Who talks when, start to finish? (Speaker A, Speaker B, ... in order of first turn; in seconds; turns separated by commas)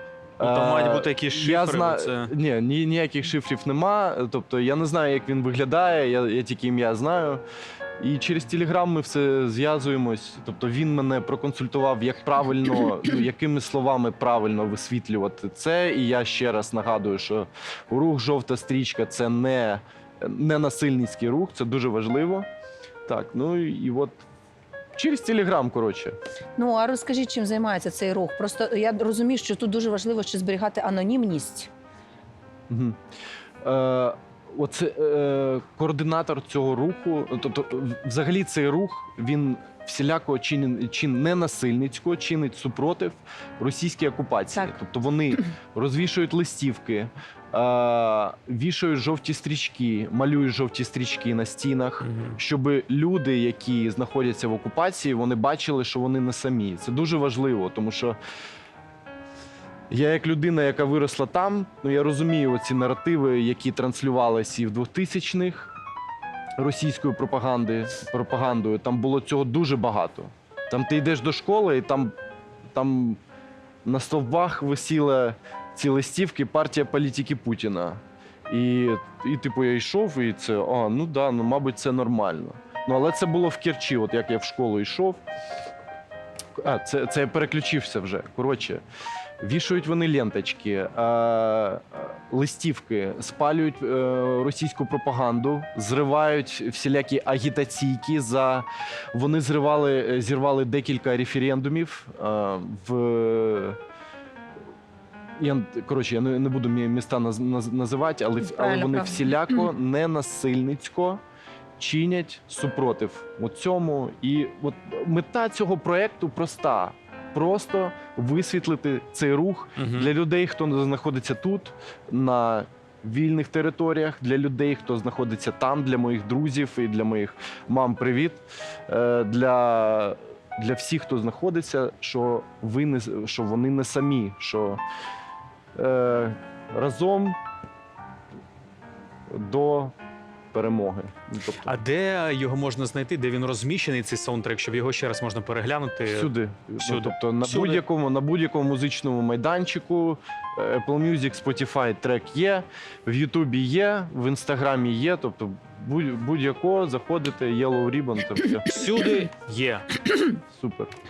Speaker A: 0.4-7.4, Speaker B: 0.4-2.3, Speaker A: 8.0-22.5, Speaker A: 23.1-24.2, Speaker A: 24.9-26.1, Speaker C: 26.6-31.7, Speaker A: 32.7-33.0, Speaker A: 33.6-58.2, Speaker B: 52.0-52.4, Speaker A: 59.9-65.7, Speaker A: 66.6-72.1, Speaker A: 72.7-73.2, Speaker A: 73.8-85.2, Speaker A: 86.6-88.8, Speaker A: 89.4-103.8, Speaker A: 105.4-111.2, Speaker C: 108.4-109.7, Speaker A: 111.8-134.8, Speaker B: 119.8-120.1, Speaker A: 135.7-137.4, Speaker A: 139.3-139.9, Speaker A: 140.5-141.7, Speaker B: 141.6-147.8, Speaker A: 146.1-158.7, Speaker B: 158.7-159.8, Speaker A: 160.3-160.9